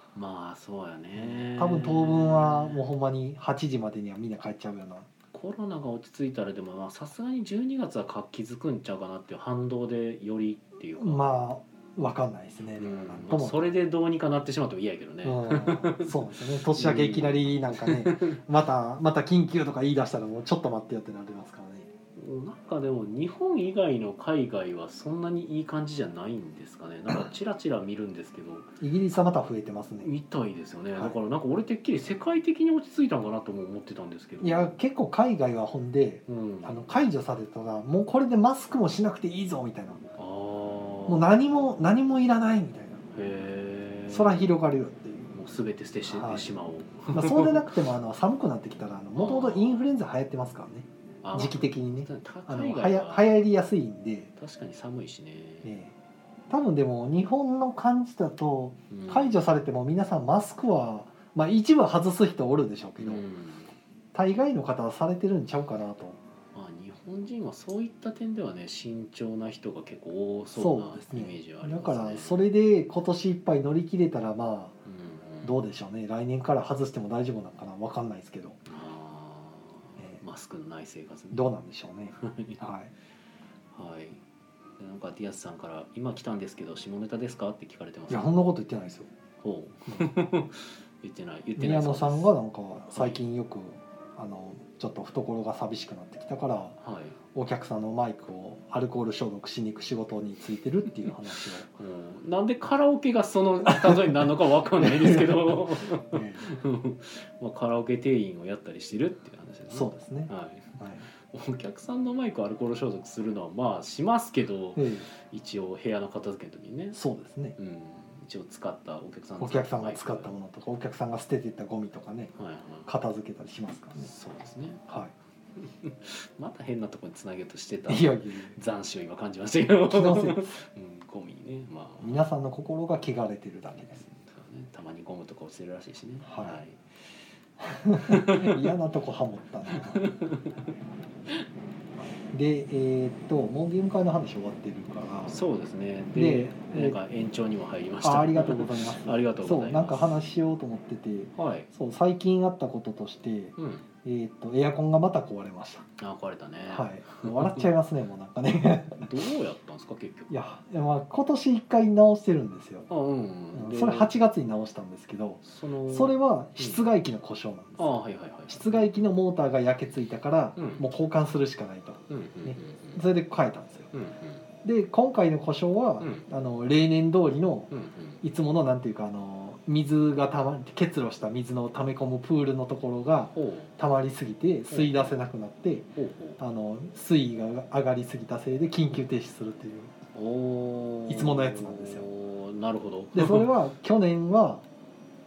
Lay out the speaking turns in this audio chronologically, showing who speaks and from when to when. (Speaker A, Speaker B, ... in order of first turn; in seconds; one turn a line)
Speaker A: 0.1-2.9
Speaker B: 1.2-5.1
Speaker A: 5.3-11.2
Speaker B: 11.0-13.6
Speaker A: 12.8-18.4
Speaker B: 15.2-21.9
Speaker A: 22.1-28.7
Speaker B: 28.8-30.1
Speaker A: 30.0-34.7
Speaker B: 34.4-40.0
Speaker A: 36.3-36.9
Speaker A: 40.2-41.4
Speaker B: 41.1-43.0
Speaker A: 43.1-44.5
Speaker B: 44.1-45.3
Speaker A: 45.3-47.7
Speaker B: 46.1-46.5
Speaker B: 47.1-54.3
Speaker A: 49.1-49.8
Speaker A: 51.2-53.3
Speaker A: 54.4-55.7
Speaker B: 55.6-55.9
Speaker B: 56.5-63.2
Speaker A: 58.9-59.4
Speaker A: 63.0-63.7
Speaker B: 64.1-66.2
Speaker A: 66.5-72.5
Speaker B: 70.5-74.8
Speaker A: 74.8-75.5
Speaker B: 75.4-78.6
Speaker A: 78.7-81.5
Speaker B: 80.0-80.2
Speaker B: 81.3-82.9
Speaker A: 82.2-82.6
Speaker A: 83.7-84.2
Speaker A: 84.8-88.4
Speaker B: 88.1-89.1
Speaker A: 89.4-92.3
Speaker B: 91.6-96.8
Speaker A: 92.9-93.2
Speaker A: 96.8-97.2
Speaker B: 97.3-101.7
Speaker A: 101.7-117.0
Speaker B: 103.7-104.2
Speaker B: 104.8-106.5
Speaker B: 109.7-111.1
Speaker B: 114.8-115.1
Speaker B: 116.9-117.5
Speaker A: 117.6-120.3
Speaker B: 119.4-122.3
Speaker A: 122.3-122.9
Speaker B: 122.8-124.1
Speaker A: 124.0-124.8
Speaker A: 125.6-132.2
Speaker B: 127.9-128.6
Speaker B: 129.9-130.5
Speaker B: 132.0-134.1
Speaker A: 134.0-136.9
Speaker B: 136.2-136.6
Speaker B: 137.6-140.0
Speaker A: 138.0-138.7
Speaker A: 139.7-140.5
Speaker B: 142.3-145.4
Speaker A: 145.3-150.1
Speaker B: 146.1-147.0
Speaker B: 148.0-155.8
Speaker A: 151.3-151.7
Speaker A: 153.6-153.8
Speaker A: 156.0-157.7
Speaker B: 156.7-159.1
Speaker A: 159.0-160.4
Speaker B: 160.3-162.9
Speaker A: 162.9-164.1
Speaker B: 163.5-167.9
Speaker A: 165.4-166.8
Speaker A: 167.8-168.9
Speaker B: 168.5-173.9
Speaker A: 170.6-170.8
Speaker A: 172.1-173.0
Speaker A: 173.9-174.4
Speaker B: 174.6-177.7
Speaker A: 176.0-176.2
Speaker A: 177.7-178.2
Speaker B: 178.2-189.9
Speaker A: 183.3-183.7
Speaker A: 184.7-185.1
Speaker A: 185.9-186.4
Speaker A: 190.1-193.5
Speaker B: 191.1-192.0
Speaker B: 193.1-194.6